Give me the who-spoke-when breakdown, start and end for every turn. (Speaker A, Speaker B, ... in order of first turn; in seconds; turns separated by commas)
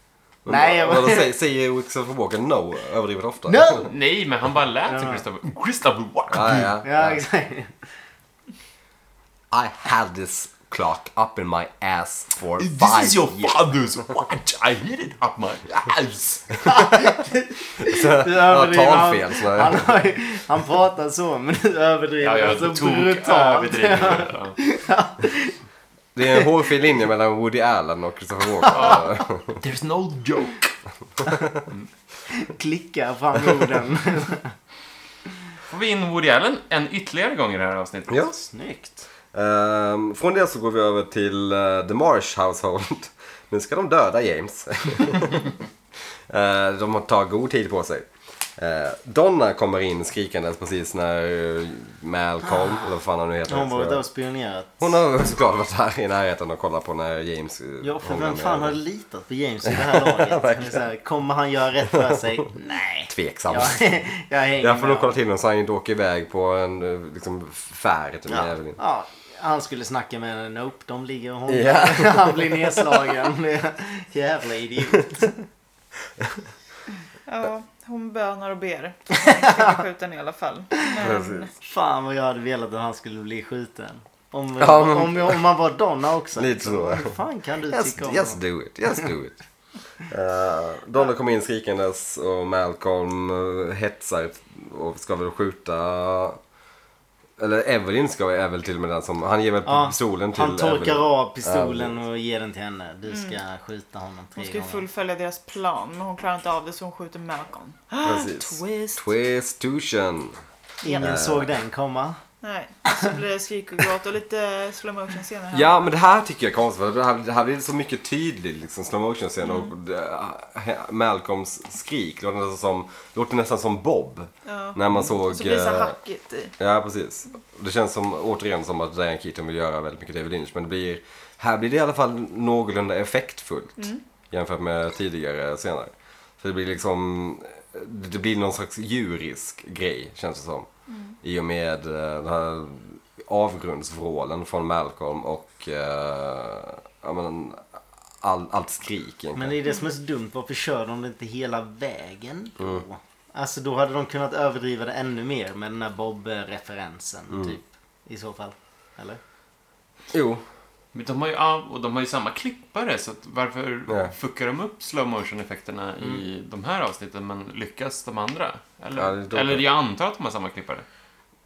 Speaker A: 0.4-3.8, Speaker B: 0.5-1.3, Speaker B: 3.5-3.9, Speaker C: 3.8-6.8, Speaker B: 4.8-5.2, Speaker A: 6.3-7.2, Speaker B: 6.8-7.8, Speaker A: 9.5-13.5, Speaker C: 12.6-16.6, Speaker B: 16.6-25.6, Speaker A: 17.8-19.9, Speaker C: 22.2-24.6, Speaker A: 26.1-29.6, Speaker C: 28.7-30.8, Speaker B: 32.3-34.5, Speaker C: 35.7-38.3, Speaker A: 38.1-38.3, Speaker B: 38.4-39.0, Speaker A: 39.3-45.5, Speaker A: 46.3-54.0, Speaker B: 52.4-52.9, Speaker B: 53.5-55.0, Speaker A: 54.8-58.8, Speaker B: 57.8-65.1, Speaker A: 59.7-60.8, Speaker A: 63.1-63.9, Speaker A: 64.6-68.8, Speaker B: 68.3-75.4, Speaker A: 71.5-73.1, Speaker D: 77.2-81.5, Speaker A: 81.0-81.5, Speaker B: 81.6-88.4, Speaker A: 84.6-85.4, Speaker A: 86.3-87.2, Speaker A: 87.7-89.4, Speaker A: 90.1-96.4, Speaker A: 97.4-102.0, Speaker B: 99.6-104.8, Speaker D: 103.1-103.4, Speaker D: 104.3-109.0, Speaker A: 108.0-110.4, Speaker B: 110.8-112.2, Speaker D: 110.8-111.1, Speaker A: 111.0-111.5, Speaker D: 112.4-115.8, Speaker A: 115.5-126.0, Speaker D: 119.4-119.7, Speaker D: 124.5-126.5, Speaker A: 126.6-140.7, Speaker D: 133.8-134.0, Speaker D: 140.9-141.1, Speaker A: 141.2-147.7, Speaker A: 148.2-149.5, Speaker B: 149.3-159.2, Speaker A: 160.1-160.4, Speaker C: 160.9-170.8, Speaker A: 163.9-164.1, Speaker A: 168.9-169.6